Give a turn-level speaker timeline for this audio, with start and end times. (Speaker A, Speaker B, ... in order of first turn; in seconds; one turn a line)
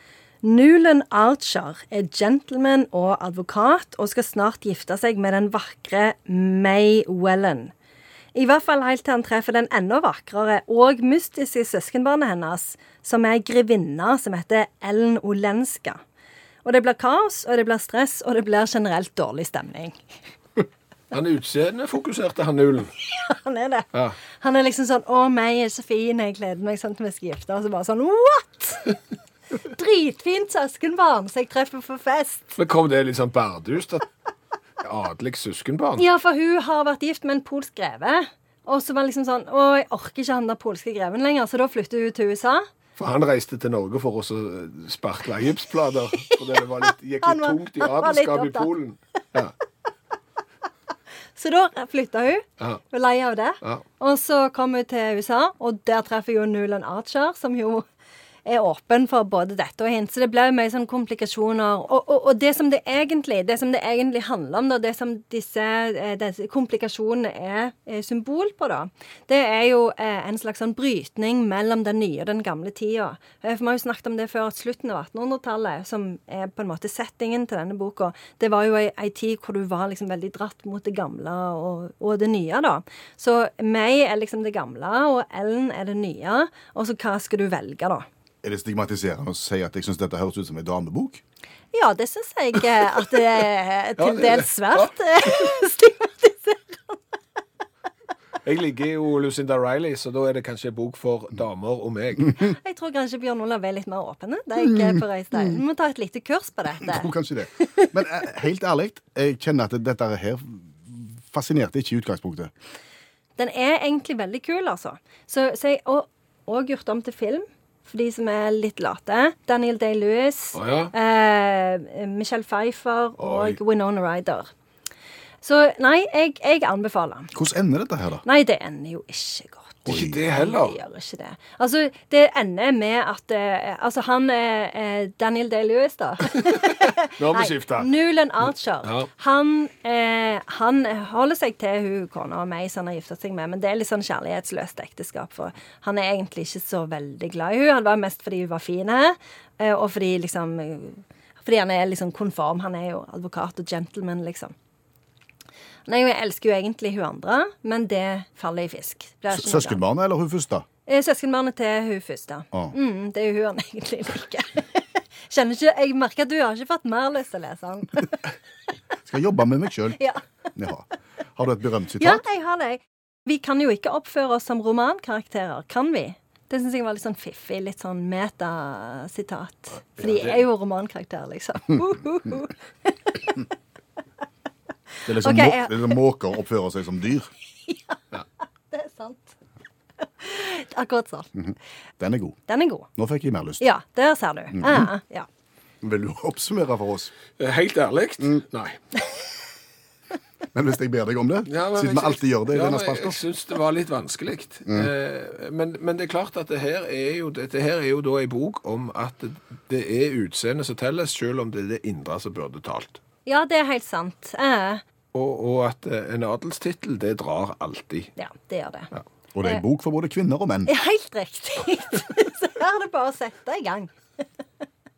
Speaker A: 0.4-7.7
Speaker A: 8.3-16.0
Speaker A: 16.6-20.0
Speaker B: 21.1-22.9
Speaker A: 23.0-28.9
Speaker A: 29.6-32.5
Speaker B: 32.5-34.1
Speaker B: 34.8-36.0
Speaker A: 36.0-42.6
Speaker B: 43.0-49.5
Speaker A: 47.2-48.7
Speaker A: 51.4-57.9
Speaker A: 58.5-88.1
Speaker C: 88.4-91.2
Speaker A: 91.7-97.0
Speaker B: 94.0-95.4
Speaker B: 98.4-102.4
Speaker A: 102.4-107.9
Speaker C: 106.8-112.5
Speaker A: 113.4-124.5
Speaker B: 120.5-120.9
Speaker B: 123.2-123.6
Speaker A: 125.4-127.3
Speaker C: 127.3-128.2
Speaker A: 128.2-154.5
Speaker B: 129.9-130.8
Speaker C: 129.9-130.2
Speaker B: 136.4-137.9
Speaker B: 138.8-139.1
Speaker A: 155.9-159.8
Speaker C: 159.3-160.7
Speaker A: 160.9-168.2
Speaker C: 169.0-170.0
Speaker A: 170.0-170.2
Speaker C: 170.6-172.2
Speaker A: 172.0-183.4
Speaker B: 180.0-180.4
Speaker C: 185.1-187.3
Speaker A: 185.2-186.0
Speaker A: 187.7-188.0
Speaker A: 188.7-189.4
Speaker A: 190.0-191.3
Speaker C: 191.4-192.4
Speaker A: 192.5-192.9
Speaker C: 193.0-193.6
Speaker A: 193.6-195.3
Speaker C: 194.6-194.8
Speaker C: 195.8-197.1
Speaker B: 197.4-198.8
Speaker C: 200.5-203.2
Speaker B: 201.5-213.0
Speaker A: 213.3-214.8
Speaker B: 215.1-218.1
Speaker A: 218.2-218.9
Speaker C: 219.3-220.7
Speaker A: 220.7-223.9